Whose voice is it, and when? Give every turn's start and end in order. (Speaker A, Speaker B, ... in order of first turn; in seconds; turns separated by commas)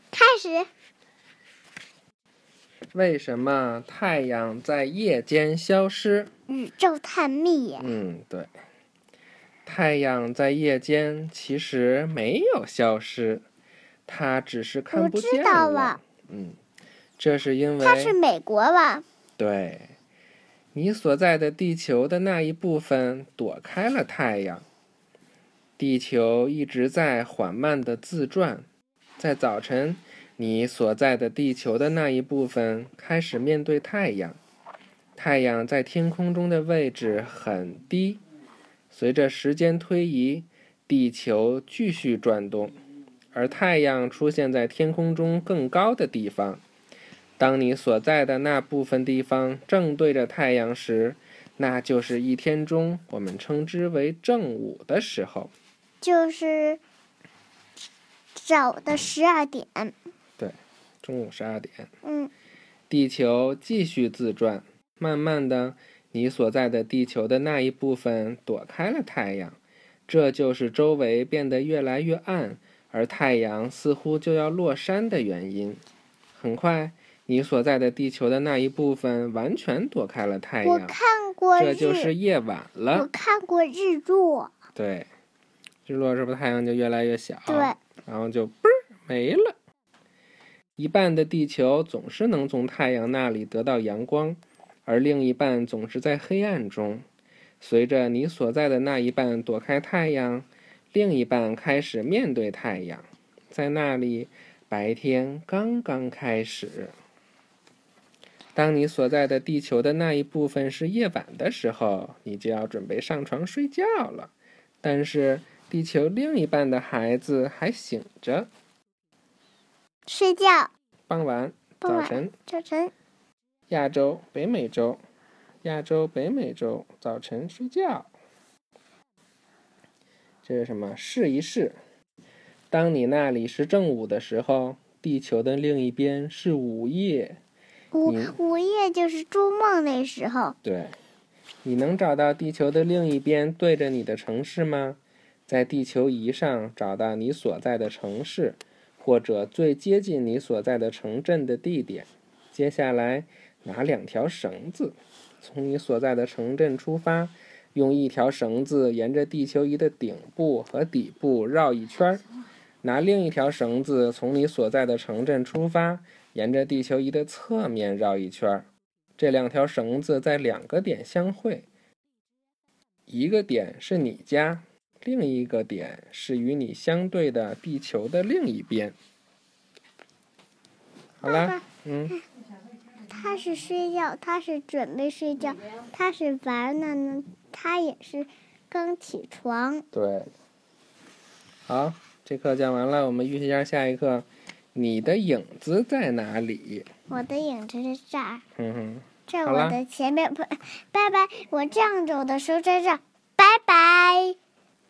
Speaker A: 0.1-0.7, Speaker B: 2.9-6.3, Speaker A: 6.5-7.9, Speaker B: 7.8-8.5, Speaker B: 9.6-13.4, Speaker B: 14.1-16.6, Speaker A: 14.9-16.0, Speaker B: 17.2-18.1, Speaker A: 17.8-19.0, Speaker B: 19.4-19.9, Speaker B: 20.7-24.6, Speaker B: 25.8-28.6, Speaker B: 29.2-34.4, Speaker B: 35.1-38.2, Speaker B: 38.9-42.8, Speaker B: 43.3-46.6, Speaker B: 47.4-55.5, Speaker A: 56.0-56.8, Speaker A: 58.3-59.9, Speaker B: 60.4-61.9, Speaker A: 62.0-62.3, Speaker B: 62.9-75.8, Speaker B: 76.3-81.0, Speaker A: 80.6-82.1, Speaker B: 81.5-83.1, Speaker A: 82.9-84.5, Speaker B: 84.7-85.1, Speaker B: 85.8-89.5, Speaker A: 87.5-87.8, Speaker B: 90.8-97.0, Speaker B: 97.6-106.9, Speaker B: 108.5-114.3, Speaker B: 114.8-118.5, Speaker A: 120.1-120.7, Speaker B: 121.1-122.3, Speaker A: 121.8-122.9, Speaker B: 123.7-125.0, Speaker B: 125.6-128.1, Speaker B: 130.4-131.8, Speaker B: 132.7-137.4, Speaker A: 137.9-140.6, Speaker B: 138.0-138.3, Speaker B: 140.6-140.9, Speaker B: 141.6-162.2, Speaker B: 162.8-168.7, Speaker B: 169.2-171.7, Speaker B: 173.1-178.9, Speaker B: 181.2-182.2, Speaker A: 181.2-181.6, Speaker A: 183.0-189.8, Speaker B: 189.9-190.3, Speaker B: 191.7-196.9, Speaker A: 197.1-198.4, Speaker B: 198.6-199.8, Speaker A: 199.3-204.3